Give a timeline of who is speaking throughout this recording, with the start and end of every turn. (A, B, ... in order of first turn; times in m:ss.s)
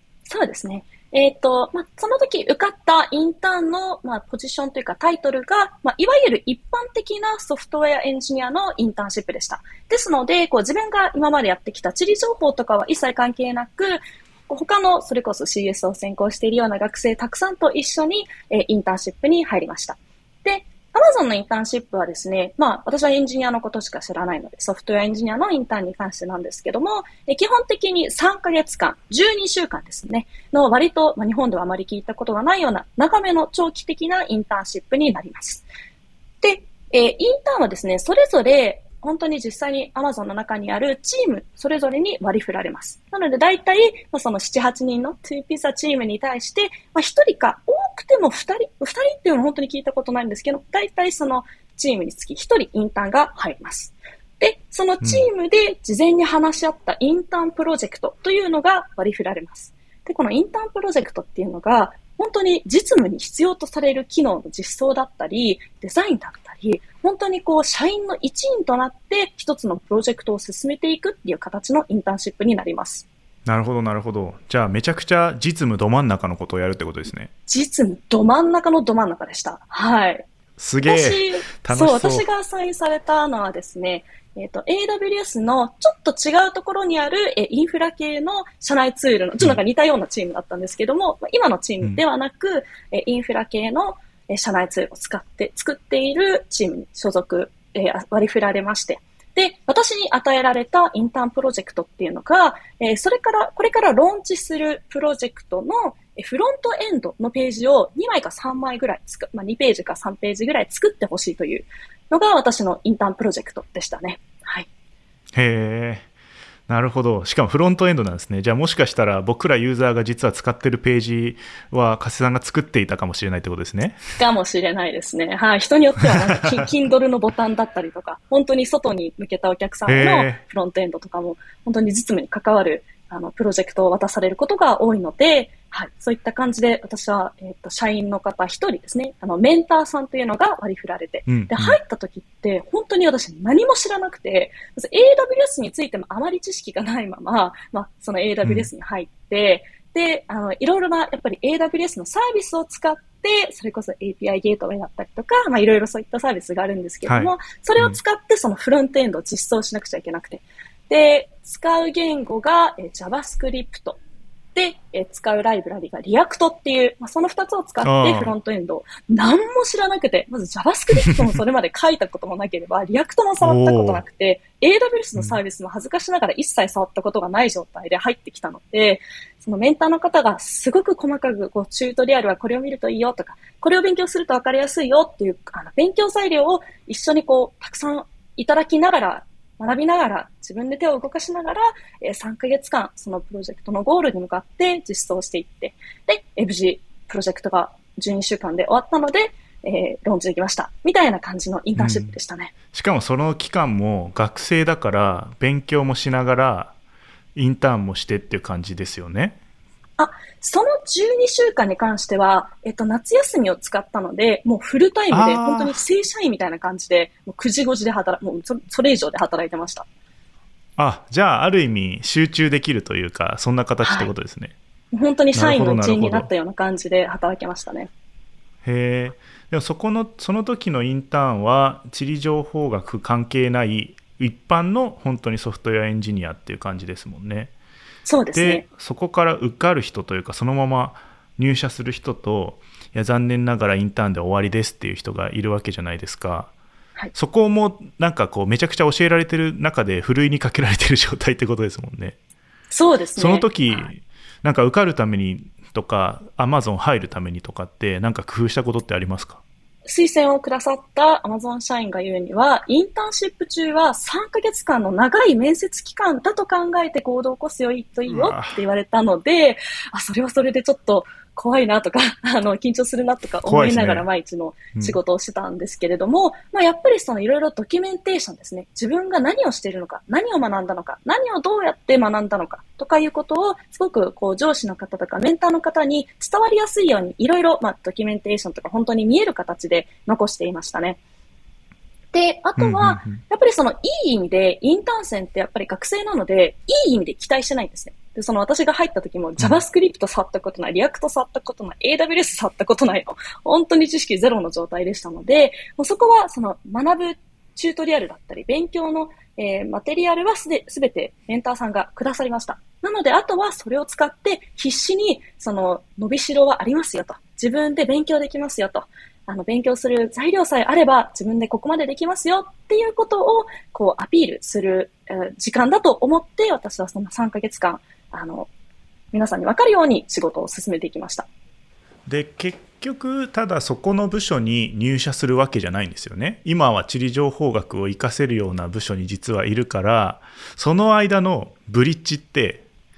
0:00.3-0:35.7 A
0:36.4-1:13.1 A
1:13.5-1:17.3 B
1:17.5-1:20.3 A
1:20.6-1:22.3 B
1:20.8-1:54.7 A
1:55.3-1:56.1 B
1:56.7-2:04.0 B
2:04.2-2:44.0 A
2:09.9-2:10.4 B
2:21.3-2:21.8 B
2:28.4-2:28.7 B
2:37.1-2:38.0 B
2:44.6-3:22.5 A
2:47.8-2:48.3 B
2:53.4-2:54.0 B
3:21.8-3:22.1 B
3:22.7-3:26.7 B
3:27.4-3:29.4 B
3:30.0-3:39.9 A
3:35.1-3:35.8 B
3:40.8-3:44.6 B
3:43.8-3:44.1 A
3:44.9-3:47.9 A
3:45.3-3:46.3 B
3:48.6-3:57.5 B
3:58.0-3:58.6 A
3:58.3-4:06.5 B
4:07.1-4:12.2 B
4:12.7-4:13.9 A
4:13.2-4:19.4 B
4:19.9-4:51.0 A
4:28.1-4:28.6 B
4:33.4-4:34.1 B
4:52.1-5:28.5 A
4:52.6-4:53.2 B
5:29.1-5:31.3 A
5:32.1-5:42.6 B